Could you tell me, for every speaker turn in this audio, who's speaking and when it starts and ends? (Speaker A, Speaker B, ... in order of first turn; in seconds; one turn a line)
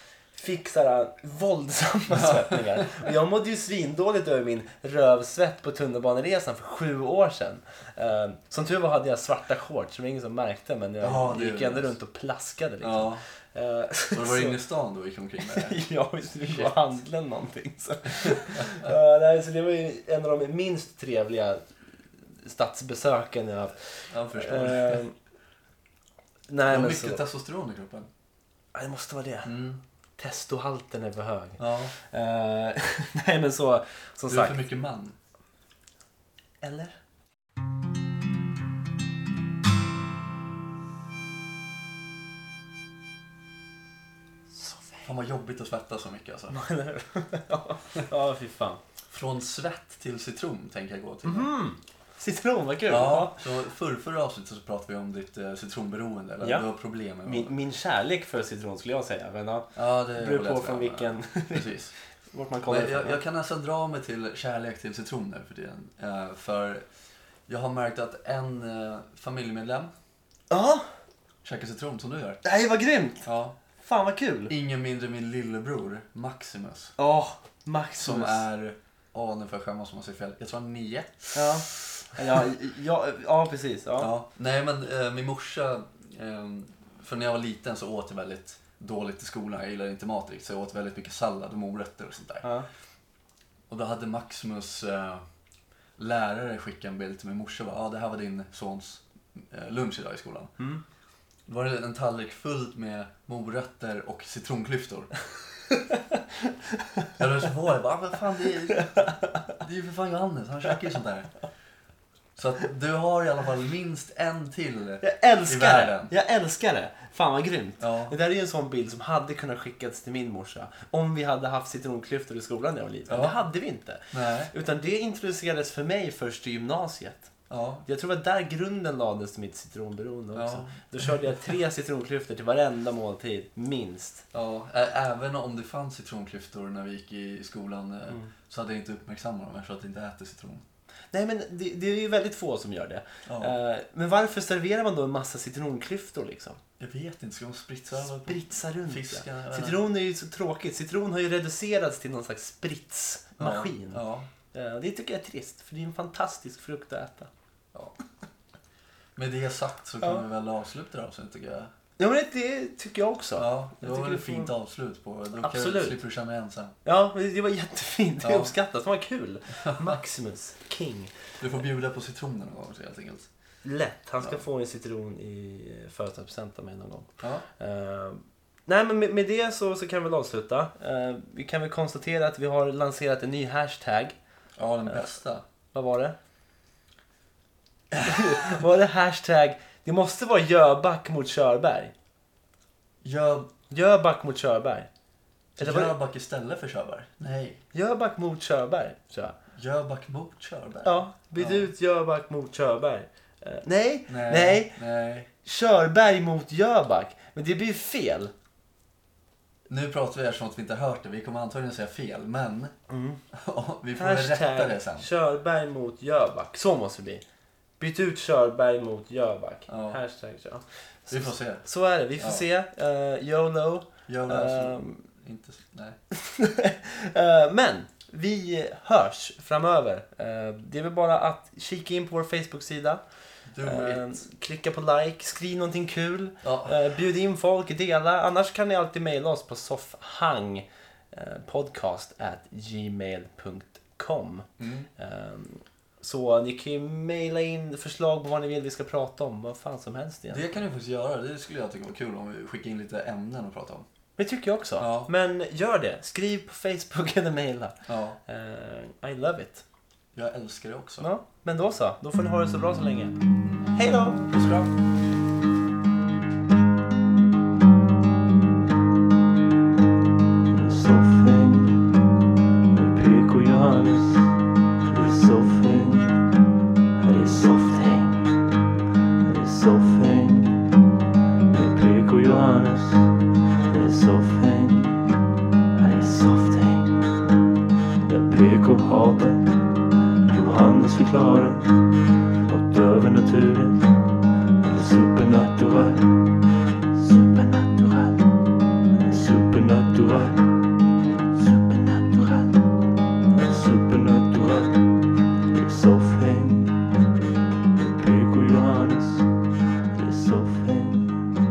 Speaker A: 0.3-14.6
Speaker B: 2.1-2.9
Speaker B: 11.0-11.9
Speaker B: 12.8-13.2
Speaker B: 14.1-15.8
Speaker A: 15.4-21.6
Speaker B: 16.4-16.8
Speaker B: 18.2-18.9
Speaker A: 22.4-25.1
Speaker B: 24.1-25.0
Speaker A: 26.5-27.2
Speaker B: 26.7-28.1
Speaker A: 28.7-29.5
Speaker B: 29.4-29.8
Speaker A: 30.2-34.6
Speaker B: 31.6-31.9
Speaker B: 34.3-35.1
Speaker A: 36.6-36.9
Speaker A: 44.5-45.1
Speaker B: 45.0-46.6
Speaker A: 46.5-48.8
Speaker B: 49.1-51.5
Speaker A: 51.2-53.4
Speaker B: 52.9-57.5
Speaker A: 57.2-61.7
Speaker B: 59.7-61.9
Speaker A: 62.3-63.2
Speaker B: 62.7-66.8
Speaker B: 67.5-69.9
Speaker A: 70.5-70.9
Speaker B: 71.4-72.4
Speaker A: 72.4-73.3
Speaker B: 73.2-73.5
Speaker A: 73.8-74.5
Speaker B: 74.5-76.9
Speaker A: 77.0-78.5
Speaker B: 78.0-81.7
Speaker A: 81.3-84.1
Speaker B: 84.0-92.5
Speaker B: 93.7-95.2
Speaker B: 96.0-100.5
Speaker B: 101.5-105.1
Speaker B: 107.2-111.3
Speaker B: 112.3-116.1
Speaker A: 115.0-127.3
Speaker B: 117.8-118.1
Speaker B: 123.1-123.4
Speaker B: 124.1-124.5
Speaker B: 127.5-127.8
Speaker A: 127.8-134.2
Speaker B: 130.3-130.7
Speaker B: 134.3-140.6
Speaker A: 141.1-146.6
Speaker B: 143.2-143.5
Speaker B: 146.8-149.8
Speaker A: 148.0-157.3
Speaker B: 153.4-154.3
Speaker B: 159.2-161.7
Speaker A: 162.0-164.5
Speaker B: 163.4-166.8
Speaker A: 165.4-166.0
Speaker A: 166.8-171.1
Speaker B: 168.2-168.5
Speaker B: 169.7-170.0
Speaker B: 171.4-173.3
Speaker A: 173.6-184.2
Speaker B: 177.2-177.4
Speaker B: 184.6-185.4
Speaker A: 184.8-185.2
Speaker A: 185.7-186.2
Speaker A: 188.0-191.9
Speaker B: 193.0-193.5
Speaker A: 193.7-194.9
Speaker B: 195.6-197.6
Speaker A: 195.6-195.9
Speaker A: 197.7-199.4
Speaker B: 199.5-201.7
Speaker A: 200.8-204.8
Speaker B: 204.1-205.3
Speaker A: 205.4-208.3
Speaker B: 209.7-212.7
Speaker A: 212.9-213.2
Speaker B: 213.3-215.1
Speaker A: 213.9-217.2
Speaker A: 217.8-225.0
Speaker B: 219.7-220.0
Speaker B: 221.1-221.6
Speaker B: 222.2-222.4
Speaker B: 224.1-226.0
Speaker A: 226.1-233.0
Speaker B: 233.5-234.2
Speaker A: 233.6-250.6
Speaker B: 236.4-236.7
Speaker B: 244.6-244.9
Speaker B: 250.3-253.8
Speaker A: 254.2-259.6
Speaker B: 254.8-255.1
Speaker B: 257.9-258.2
Speaker B: 260.1-261.1
Speaker A: 261.0-263.1
Speaker B: 263.4-264.7
Speaker A: 263.7-264.2
Speaker C: 270.5-272.0
Speaker C: 272.7-276.3
Speaker C: 277.0-278.4
Speaker C: 279.2-280.8
Speaker C: 281.5-285.2
Speaker C: 285.8-287.1
Speaker C: 288.0-298.3
Speaker C: 299.0-300.7
Speaker C: 301.3-302.6
Speaker C: 303.3-306.9
Speaker C: 307.8-311.3